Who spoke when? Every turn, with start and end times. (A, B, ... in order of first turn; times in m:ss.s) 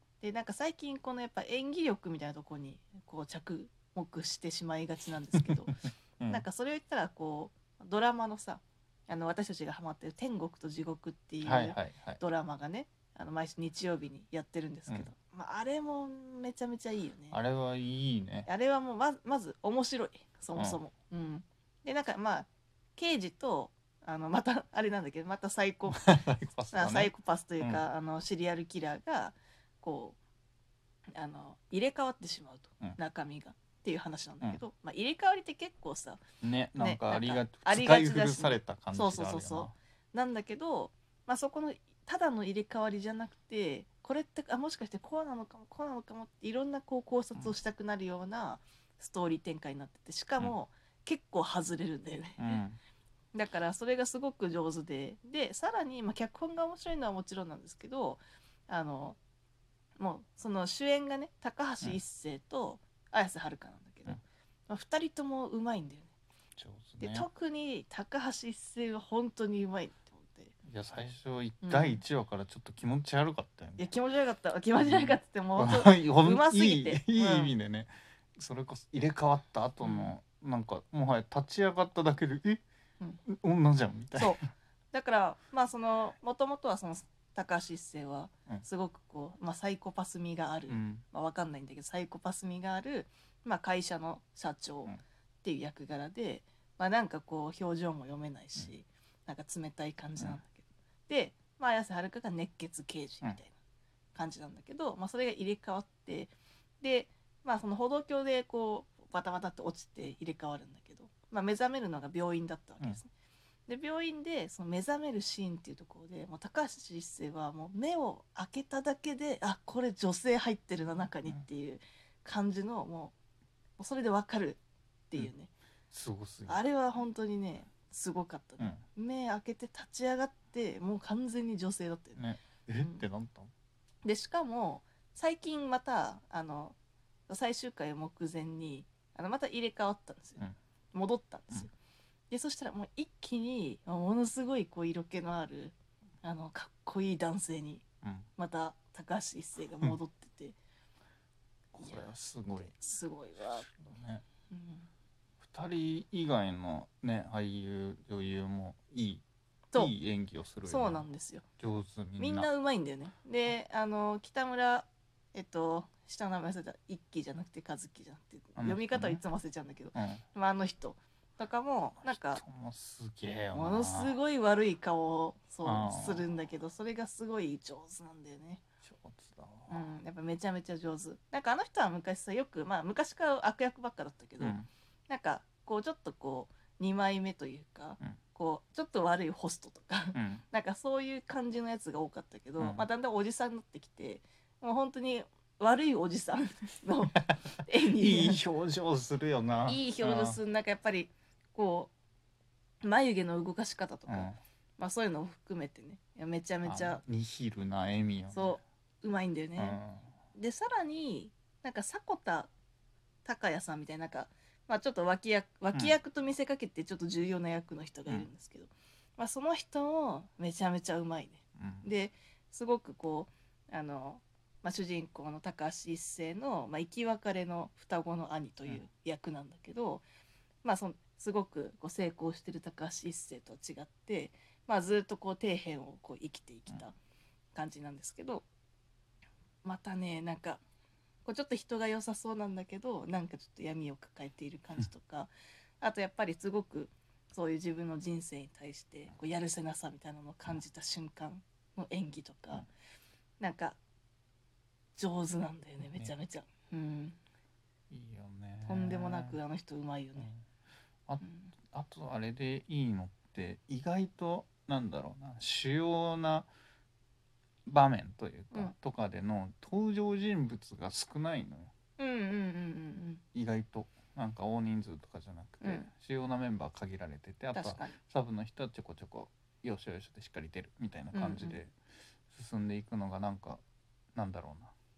0:00.2-0:17.4 A
0:11.4-0:12.2 B
0:17.3-0:18.5 B
0:18.4-0:26.2 A
0:25.9-0:27.8 B
0:26.7-0:30.2 A
0:31.2-0:36.2 A
0:36.4-0:39.7 B
0:36.8-0:52.6 A
0:52.4-0:52.8 B
0:53.3-0:59.2 A
1:00.0-1:06.1 A
1:06.6-1:07.2 B
1:07.0-1:10.5 A
1:10.6-1:13.9 B
1:11.6-1:12.0 A
1:13.8-1:17.6 A
1:14.8-1:22.6 B
1:19.8-1:20.2 A
1:23.2-1:24.4 B
1:24.2-1:43.6 A
1:30.7-1:31.0 B
1:44.2-1:53.1 A
1:53.7-2:03.1 A
2:03.8-2:05.5 A
2:05.9-2:06.6 B
2:06.5-2:12.2 A
2:12.2-2:13.5 B
2:14.0-2:16.8 A
2:17.3-2:21.7 A
2:22.3-2:27.8 A
2:28.0-2:28.3 B
2:28.4-2:30.6 A
2:31.7-2:32.8 B
2:31.8-2:33.7 A
2:33.6-2:34.2 B
2:34.5-2:34.9 A
2:35.4-2:39.2 B
2:39.8-2:41.1 B
2:40.6-2:41.4 A
2:41.6-2:42.5 B
2:42.2-2:52.4 A
2:48.6-2:49.2 B
2:49.9-2:50.2 B
2:52.0-2:54.2 B
2:53.5-2:58.6 A
2:55.6-2:56.2 B
2:58.8-3:00.0 B
2:59.7-3:04.6 A
3:04.4-3:04.7 B
3:05.1-3:18.4 A
3:10.1-3:10.4 B
3:12.6-3:12.9 B
3:17.9-3:20.4 B
3:19.7-3:21.9 A
3:22.8-3:27.0 A
3:24.1-3:24.4 B
3:26.6-3:28.6 B
3:28.3-3:29.8 A
3:29.6-3:30.1 B
3:30.3-3:32.5 A
3:33.2-3:50.0 A
3:41.6-3:41.9 B
3:50.6-3:56.9 A
3:57.6-3:58.4 A
3:59.6-4:00.6 A
4:01.2-4:12.7 A
4:13.4-4:13.8 A
4:15.0-4:17.2 A
4:17.9-4:19.4 B
4:18.6-4:20.3 A
4:21.1-4:26.5 B
4:21.2-4:21.5 A
4:27.7-4:31.7 B
4:32.0-4:33.2 A
4:33.3-4:41.7 B
4:35.6-4:35.9 A
4:37.5-4:38.0 A
4:41.1-4:41.6 A
4:42.3-4:43.6 B
4:44.2-4:44.7 B